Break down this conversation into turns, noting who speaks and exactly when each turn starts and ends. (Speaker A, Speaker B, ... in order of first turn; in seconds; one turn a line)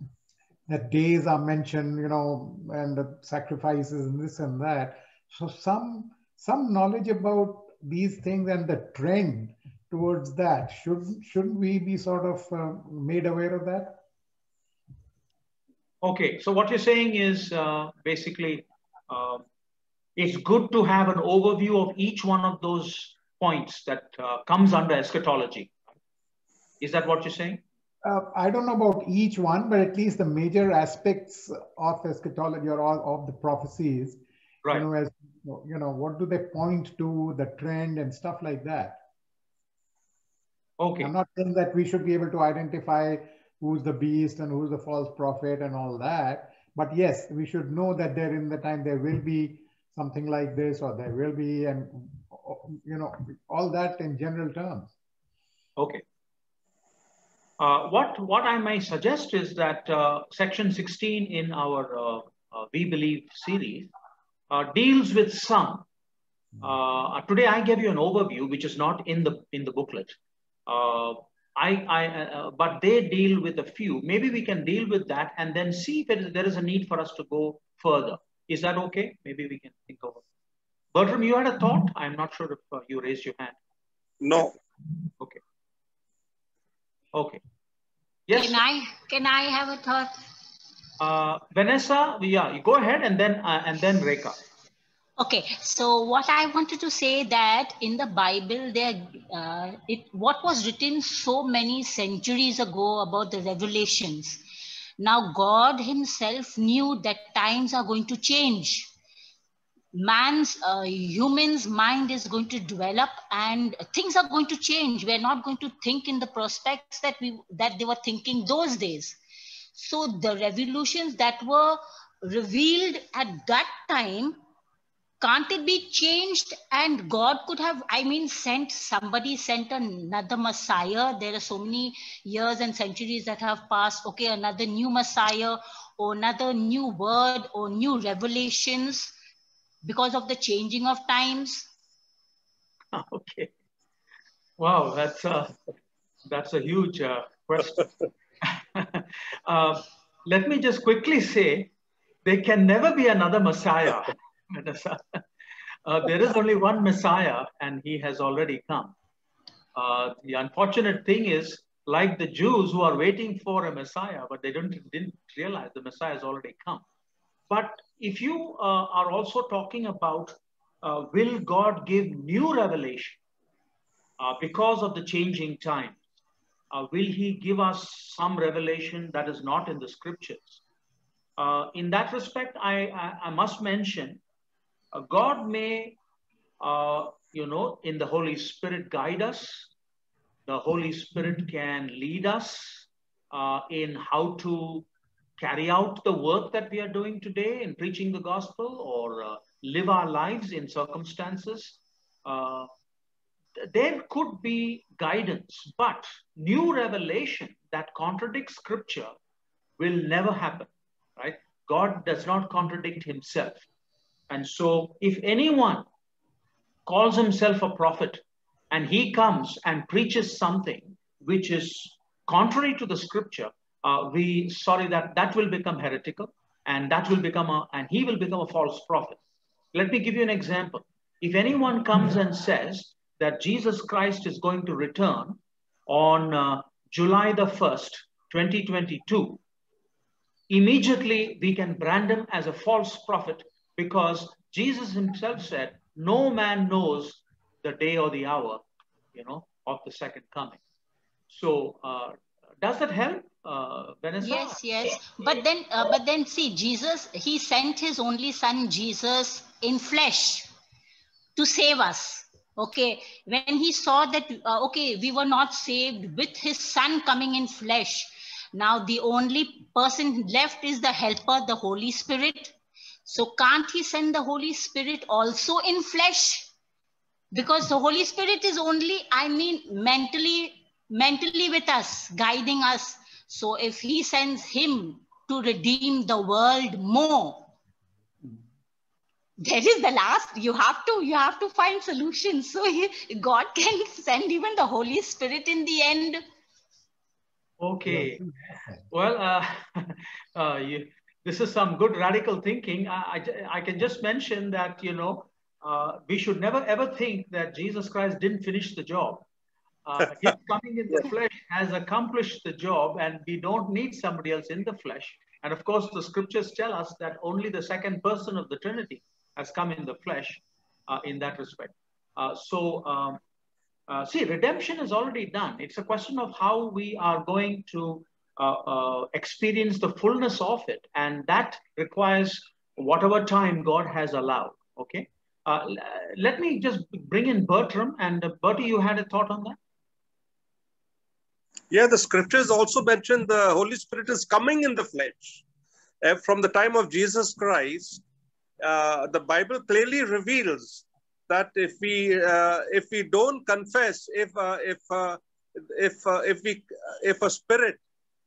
Speaker A: 0.7-14.0
Speaker B: 16.0-19.4
Speaker B: 20.2-25.8
Speaker B: 26.8-27.6
Speaker A: 28.1-39.0
Speaker B: 40.8-41.1
Speaker A: 41.0-54.9
Speaker B: 55.8-56.0
Speaker B: 57.6-63.9
Speaker B: 64.5-65.9
Speaker B: 66.6-80.2
Speaker B: 80.9-83.6
Speaker C: 84.2-84.6
Speaker B: 87.1-87.4
Speaker B: 88.3-88.6
Speaker D: 88.3-90.1
Speaker B: 91.0-94.4
Speaker D: 95.2-104.4
Speaker D: 105.0-108.9
Speaker D: 109.9-119.2
Speaker D: 119.8-124.4
Speaker D: 125.2-139.2
Speaker D: 139.8-141.7
Speaker B: 142.9-143.5
Speaker B: 144.6-145.6
Speaker B: 146.3-147.9
Speaker B: 148.4-151.7
Speaker B: 152.2-155.2
Speaker B: 155.8-158.9
Speaker B: 159.8-166.8
Speaker B: 167.5-173.2
Speaker B: 174.2-176.0
Speaker B: 176.7-180.6
Speaker B: 181.4-184.2
Speaker B: 184.9-186.0
Speaker B: 186.6-189.7
Speaker B: 190.5-194.9
Speaker B: 195.4-202.7
Speaker B: 203.6-209.1
Speaker B: 209.8-213.7
Speaker B: 214.3-215.9
Speaker B: 216.9-229.2
Speaker B: 229.7-239.4
Speaker B: 240.5-248.6
Speaker B: 249.1-250.6
Speaker B: 251.3-254.6
Speaker D: 254.2-260.5
Speaker D: 261.4-272.6
Speaker D: 273.1-276.5
Speaker D: 277.3-287.5
Speaker D: 289.4-296.2
Speaker B: 297.6-298.2
Speaker A: 297.9-298.9
Speaker B: 298.9-309.2
Speaker B: 309.9-323.2
Speaker B: 323.9-339.6
Speaker C: 341.7-345.4
Speaker C: 346.0-348.0
Speaker C: 348.6-357.8